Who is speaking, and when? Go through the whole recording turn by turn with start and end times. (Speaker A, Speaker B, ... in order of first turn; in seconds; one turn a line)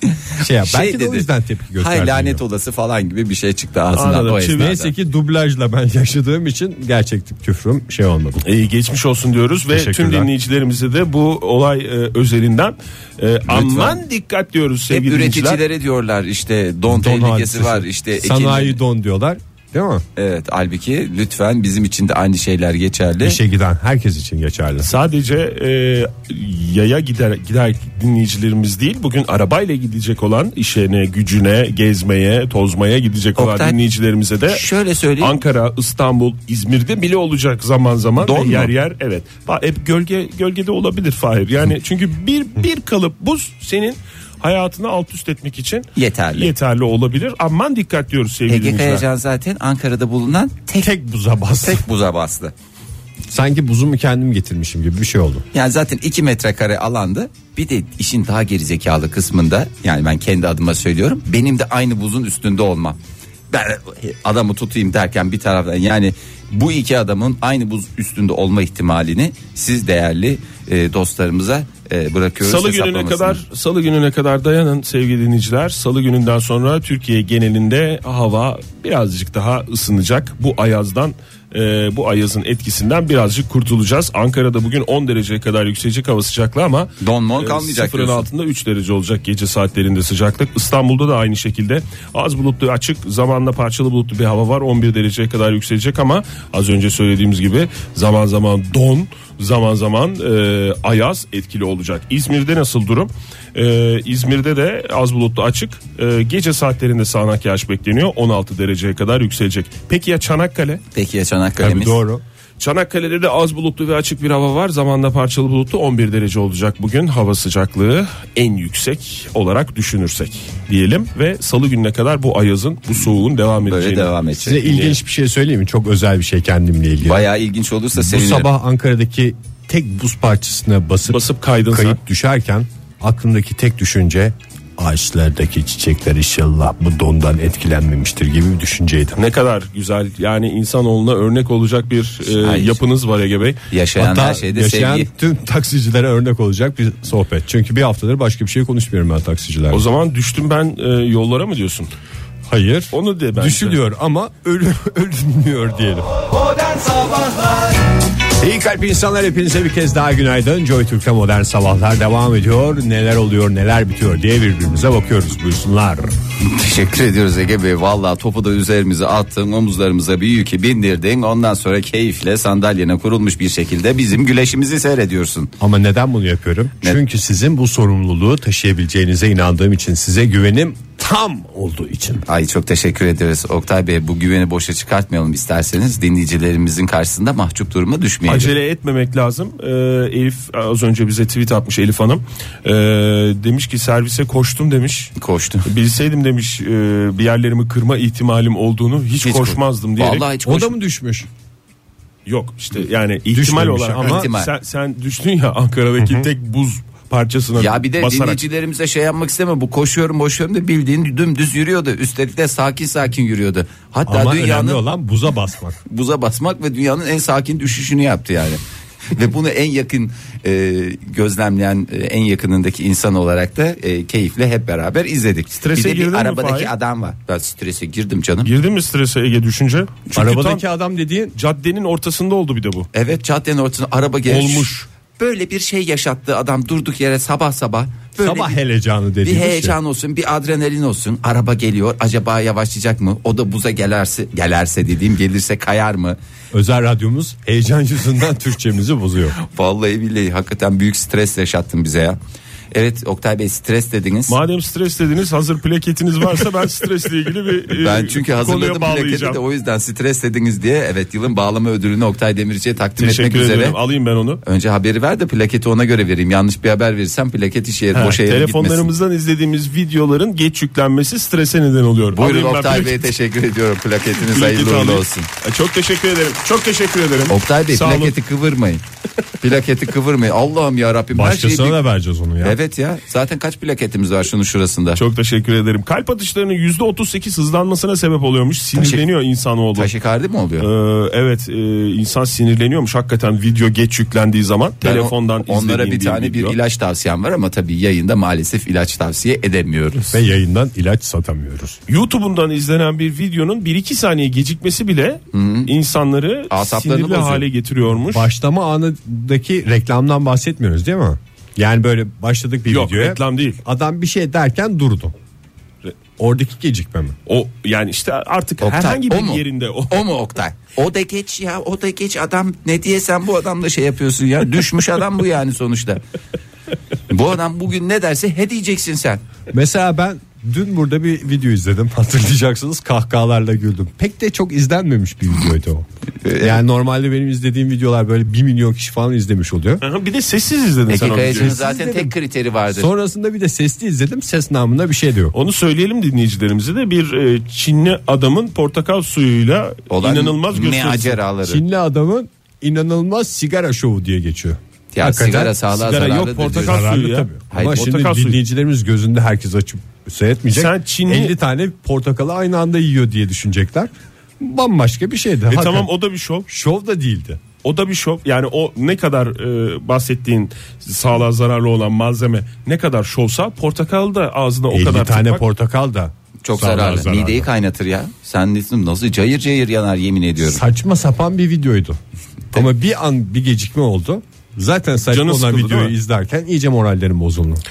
Speaker A: 0.2-4.9
Speaker B: 0.4-2.4
Speaker C: 3.9-4.8
Speaker B: 4.5-8.4
Speaker C: 8.4-15.6
Speaker B: 9.7-10.3
Speaker A: 13.5-14.0
Speaker A: 14.9-18.8
Speaker B: 16.9-20.1
Speaker A: 20.2-23.4
Speaker B: 23.2-25.0
Speaker C: 24.8-34.7
Speaker A: 33.4-33.8
Speaker A: 34.5-35.4
Speaker C: 35.2-49.0
Speaker A: 38.2-38.7
Speaker A: 46.0-46.5
Speaker A: 48.5-50.9
Speaker B: 50.8-51.9
Speaker A: 51.6-52.5
Speaker B: 53.3-55.5
Speaker A: 55.5-63.0
Speaker A: 63.5-73.4
Speaker C: 72.4-110.8
Speaker A: 87.0-88.3
Speaker A: 110.9-112.0
Speaker B: 111.6-112.2
Speaker C: 112.6-125.0
Speaker A: 123.6-124.7
Speaker B: 124.4-127.2
Speaker A: 127.0-128.5
Speaker B: 128.0-139.2
Speaker C: 131.1-132.0
Speaker C: 139.2-143.6
Speaker A: 142.3-142.8
Speaker A: 143.7-145.1
Speaker B: 144.0-149.8
Speaker C: 149.7-151.9
Speaker B: 152.5-156.2
Speaker C: 152.9-153.8
Speaker B: 156.9-157.6
Speaker B: 158.4-166.1
Speaker A: 166.4-175.5
Speaker B: 175.6-182.2
Speaker A: 182.3-188.5
Speaker C: 188.3-195.1
Speaker A: 195.2-195.7
Speaker C: 195.7-200.3
Speaker A: 199.2-200.7
Speaker B: 200.4-201.3
Speaker C: 202.3-208.4
Speaker B: 203.3-204.3
Speaker A: 204.0-204.5
Speaker A: 207.6-214.8
Speaker B: 214.1-215.8
Speaker A: 215.9-228.5
Speaker C: 225.6-226.7
Speaker C: 228.4-230.6
Speaker B: 230.1-231.3
Speaker C: 231.3-232.9
Speaker A: 232.9-238.6
Speaker C: 234.3-234.9
Speaker B: 238.2-239.8
Speaker A: 239.2-246.2
Speaker B: 246.5-249.4
Speaker A: 249.4-252.2
Speaker A: 252.7-254.4
Speaker C: 254.3-259.4
Speaker A: 257.7-263.8
Speaker C: 263.0-264.4
Speaker A: 264.4-268.9
Speaker C: 267.9-273.1
Speaker A: 272.1-275.3
Speaker C: 274.2-278.2
Speaker A: 277.3-278.8
Speaker A: 279.4-281.8
Speaker B: 281.1-282.6
Speaker A: 282.4-285.0
Speaker C: 285.0-289.9
Speaker A: 288.8-289.0
Speaker A: 289.8-290.7
Speaker C: 290.6-296.6
Speaker A: 294.8-300.1
Speaker B: 300.1-301.8
Speaker C: 301.9-308.3
Speaker A: 305.3-305.7
Speaker A: 306.5-307.5
Speaker B: 308.1-315.1
Speaker C: 312.7-313.6
Speaker B: 316.2-317.2
Speaker C: 317.3-320.1
Speaker A: 318.6-326.0
Speaker A: 327.1-329.2
Speaker B: 329.5-339.8
Speaker A: 336.2-336.6
Speaker C: 339.8-341.6
Speaker A: 340.9-342.9
Speaker B: 341.2-342.1
Speaker B: 342.7-345.4
Speaker C: 345.3-351.2
Speaker A: 349.9-351.6
Speaker B: 351.4-365.9
Speaker A: 354.9-356.8
Speaker C: 356.4-358.4
Speaker A: 357.5-357.9
Speaker C: 360.5-361.4
Speaker C: 365.5-366.5
Speaker B: 366.5-367.4
Speaker C: 367.6-375.4
Speaker B: 374.7-377.5
Speaker A: 376.4-380.6
Speaker B: 380.4-382.0
Speaker B: 382.5-387.6
Speaker C: 385.1-385.9